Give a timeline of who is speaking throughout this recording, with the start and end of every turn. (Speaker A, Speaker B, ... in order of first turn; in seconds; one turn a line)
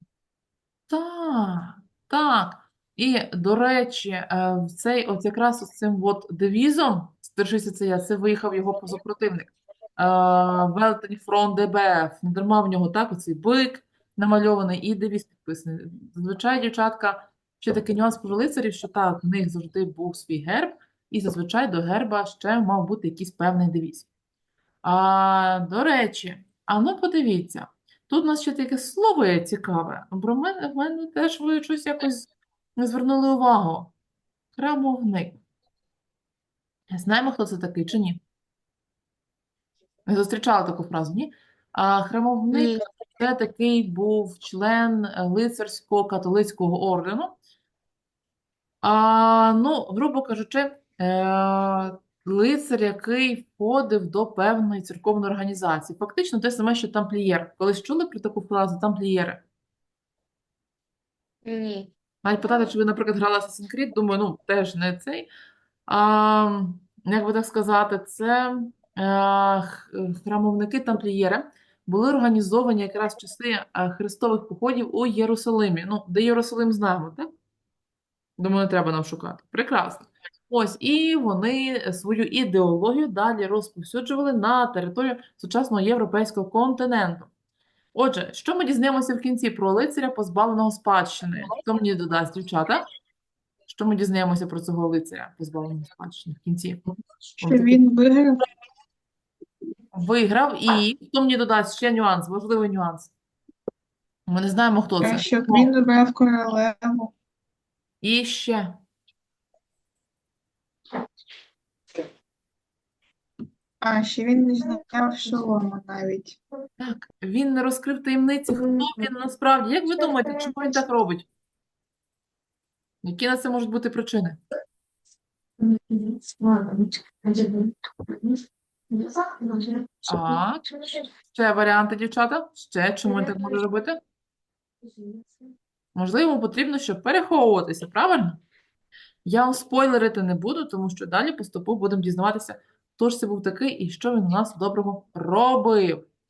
Speaker A: 0.9-24.1
Speaker A: 24.8-33.9
Speaker A: 34.5-35.4
Speaker A: 36.9-38.2
Speaker A: 40.0-47.4
Speaker B: 42.5-42.8
Speaker A: 48.8-59.4
Speaker B: 61.5-61.9
Speaker A: 62.2-65.3
Speaker A: 65.9-77.3
Speaker A: 78.4-87.3
Speaker A: 87.9-92.8
Speaker A: 93.7-96.8
Speaker A: 97.4-97.8
Speaker C: 97.4-98.4
Speaker A: 99.9-103.1
Speaker A: 104.3-105.7
Speaker C: 105.0-107.1
Speaker A: 108.0-108.8
Speaker C: 113.8-116.4
Speaker A: 116.8-121.3
Speaker B: 118.5-119.0
Speaker B: 120.0-120.8
Speaker A: 123.0-124.4
Speaker B: 125.6-131.1
Speaker A: 130.1-130.6
Speaker A: 131.3-134.0
Speaker B: 133.1-133.6
Speaker B: 134.8-135.5
Speaker A: 135.9-138.4
Speaker A: 139.2-146.0